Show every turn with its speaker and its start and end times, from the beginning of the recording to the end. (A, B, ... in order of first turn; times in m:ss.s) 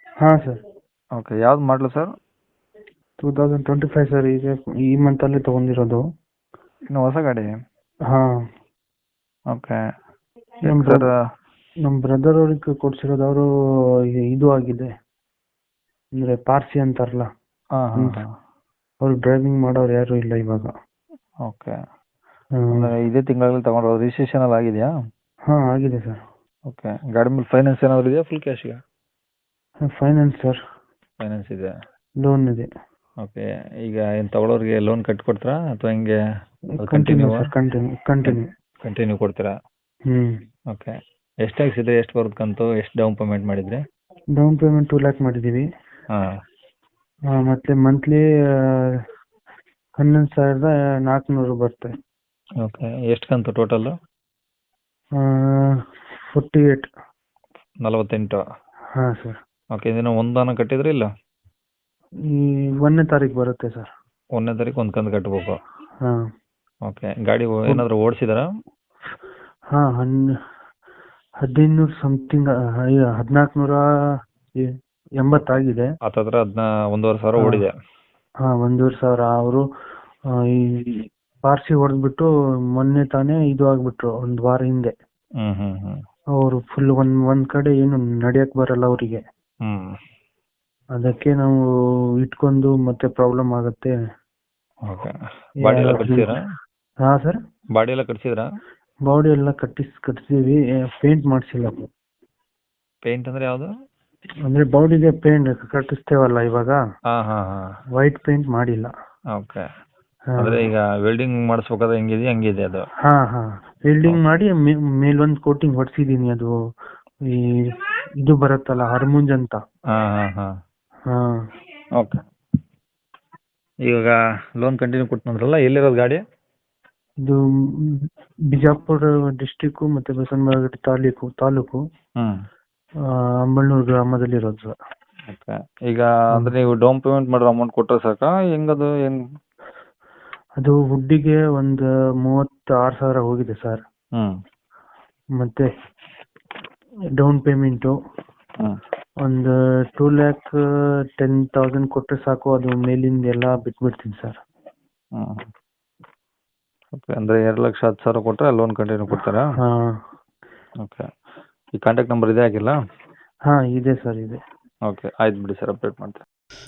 0:00.2-0:00.6 A
0:01.2-0:02.1 B
0:03.2-0:06.0 A
0:06.9-0:07.5 B
0:09.5-0:09.8 B
0:10.6-0:11.1 A
0:10.6-0:11.1 B
0:11.8-0:13.5 A
0:14.3-0:14.9 A
0:16.2-0:17.3 A
0:17.8-0:18.3 B
0:19.0-0:20.7 A
0:21.5-0:21.8 B
0:22.6-0:22.9 A
0:22.7-0:24.9 B
0:25.5-0:26.2 A
0:26.7-0:28.8 B
0:29.9-0:30.6 A
0:31.2-0:31.7 B
0:32.2-0:32.7 A
0:33.2-0:36.2 B
0:36.8-0:38.5 A
0:36.8-0:37.5 B
0:38.3-0:39.5 B
0:41.4-0:43.8 B
0:44.4-0:45.7 A
0:47.3-0:49.0 A
0:50.0-0:51.9 A
0:52.6-0:53.9 B
0:55.2-0:55.8 A
0:56.3-0:56.9 A
0:57.8-0:58.4 B
0:58.9-0:59.4 A
0:59.8-1:01.1 B
1:02.3-1:03.9 A
1:04.4-1:05.5 B
1:06.9-1:08.5 B
1:09.7-1:10.2 A
1:11.4-1:13.8 A
1:14.6-1:15.9 A
1:16.0-1:17.7 B
1:18.5-1:19.6 A
1:20.5-1:24.9 A
1:25.4-1:26.0 B
1:26.4-1:29.2 A
1:29.6-1:30.0 B
1:31.0-1:31.6 A
1:32.2-1:33.9 A
1:34.9-1:36.4 B
1:35.6-1:36.4 A
1:37.0-1:37.4 A
1:37.8-1:38.5 B
1:39.1-1:41.9 A
1:43.0-1:43.7 B
1:44.5-1:46.8 A
1:47.1-1:47.7 B
1:48.0-1:48.9 A
1:49.4-1:49.6 B
1:50.3-1:50.6 A
1:50.4-1:52.9 B
1:53.0-1:56.5 A
1:57.3-1:57.7 A
1:58.2-1:59.6 A
1:59.9-2:00.5 B
2:01.1-2:01.4 A
2:03.9-2:06.2 B
2:07.2-2:11.8 A
2:13.5-2:14.7 A
2:15.3-2:19.2 B
2:20.6-2:23.8 A
2:25.4-2:25.7 A
2:27.2-2:27.9 A
2:29.2-2:30.5 A
2:31.2-2:34.4 A
2:35.2-2:35.5 B
2:36.9-2:39.5 B
2:39.6-2:40.0 A
2:41.8-2:42.8 B
2:43.5-2:44.4 A
2:44.9-2:46.2 B